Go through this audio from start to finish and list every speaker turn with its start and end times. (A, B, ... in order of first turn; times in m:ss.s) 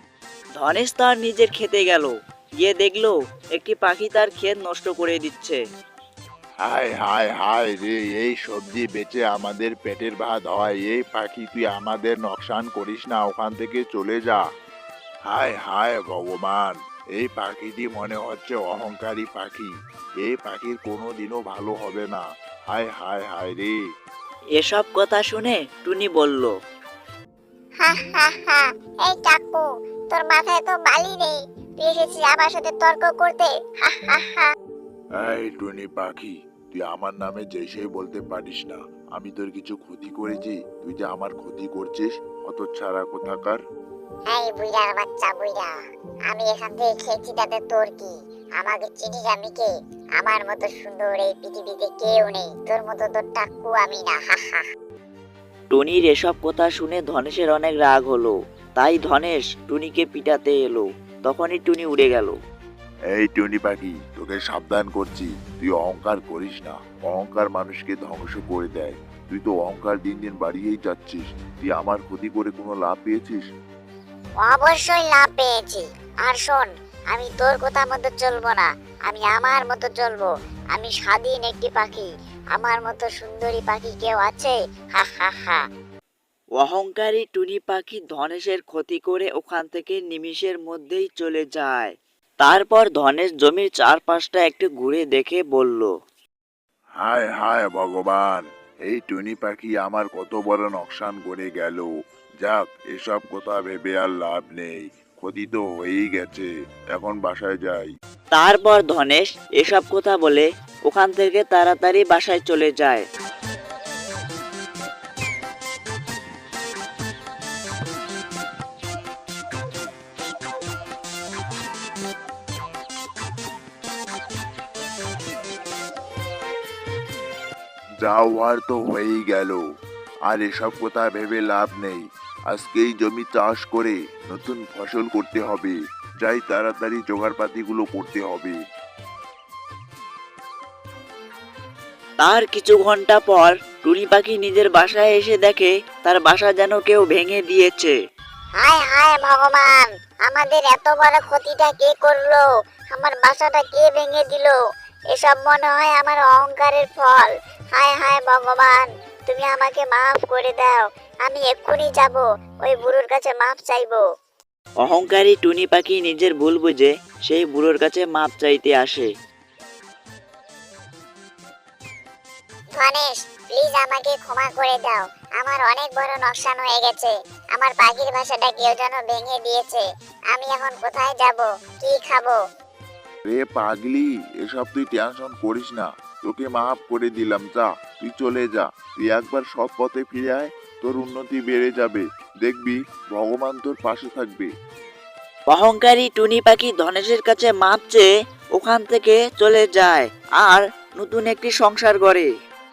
0:00.6-0:05.6 A
0:06.6-0:14.4 B
0:15.3-0:19.7 B
0:20.2-0:23.8 B
0:24.6-0:26.5 A
0:27.8-0:34.5 C
0:35.2-0:43.6 B
0:44.3-0:45.7 C
0:46.3-0:54.6 C
0:55.7-1:02.4 A
1:03.1-1:13.4 B
1:14.4-1:25.6 C
1:26.6-1:35.9 A
1:37.0-1:41.9 B
1:42.4-1:47.9 B
1:48.3-1:53.0 A
2:08.0-2:09.6 B
2:10.3-2:18.6 B
2:22.2-2:28.0 A
2:28.6-2:34.6 C
2:35.1-2:44.0 C
2:44.8-2:49.1 A
2:52.8-3:02.4 C
3:03.3-3:14.5 B
3:15.5-3:22.3 A